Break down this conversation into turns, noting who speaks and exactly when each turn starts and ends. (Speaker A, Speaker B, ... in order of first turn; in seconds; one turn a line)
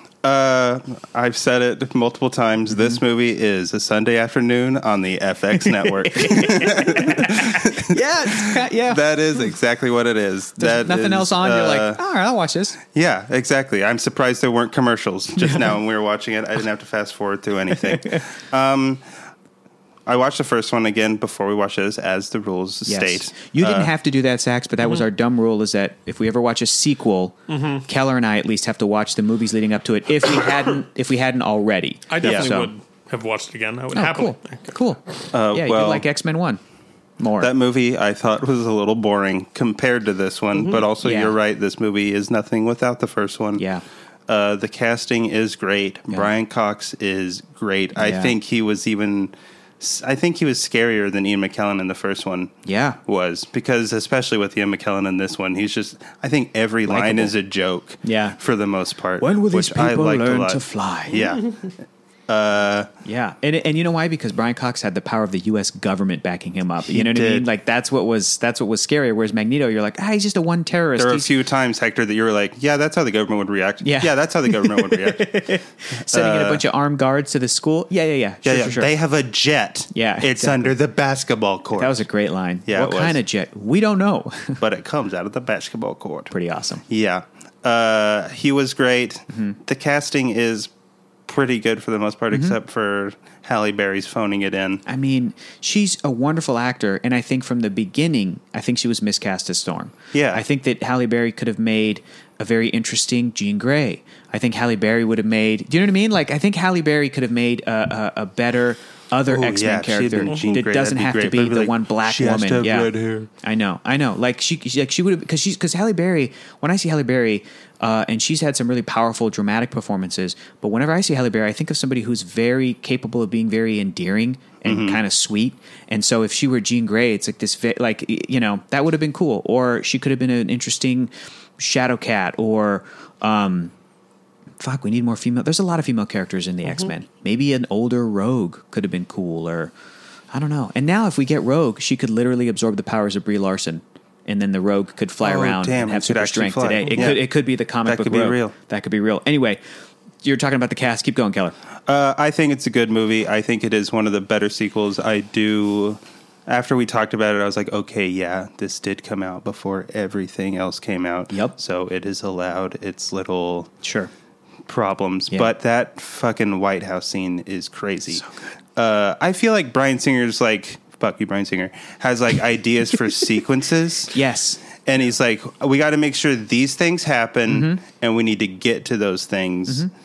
Speaker A: 0.2-12.0
Speaker B: 2.7-3.0
Speaker B: 5.6-9.0
Speaker B: 10.6-12.8
Speaker A: 12.9-19.0
Speaker B: 17.8-18.2
Speaker A: 20.1-23.9
Speaker B: 22.9-32.7
Speaker C: 27.5-27.8
Speaker C: 32.1-34.7
Speaker A: 32.2-32.5
Speaker B: 33.9-36.6
Speaker A: 35.3-36.0
Speaker B: 37.2-37.5
Speaker A: 37.4-43.6
Speaker B: 41.0-41.4
Speaker B: 43.6-43.8
Speaker A: 44.3-52.5
Speaker B: 48.0-48.4
Speaker B: 52.6-53.0
Speaker A: 53.0-61.6
Speaker B: 56.9-57.3
Speaker B: 58.0-58.4
Speaker B: 59.2-61.3
Speaker A: 62.3-62.9
Speaker B: 63.0-71.3
Speaker A: 66.8-67.5
Speaker A: 71.0-75.5
Speaker B: 73.8-78.9
Speaker A: 76.1-76.6
Speaker A: 78.4-82.0
Speaker B: 79.9-80.7
Speaker B: 81.8-84.6
Speaker A: 82.7-83.2
Speaker A: 84.6-86.3
Speaker B: 86.3-86.8
Speaker A: 86.9-90.7
Speaker A: 91.3-94.8
Speaker B: 92.3-92.5
Speaker B: 94.8-112.9
Speaker A: 100.1-100.4
Speaker A: 109.3-113.3
Speaker C: 110.2-110.6
Speaker B: 113.4-133.7
Speaker A: 124.6-125.0
Speaker B: 134.6-139.7
Speaker C: 136.7-136.9
Speaker B: 140.3-149.6
Speaker A: 145.2-147.3
Speaker C: 146.8-147.2
Speaker A: 147.8-148.5
Speaker B: 150.2-151.5
Speaker A: 151.9-163.7
Speaker B: 163.8-164.1
Speaker A: 164.7-174.2
Speaker B: 174.1-174.6
Speaker A: 174.8-179.9
Speaker B: 177.5-177.8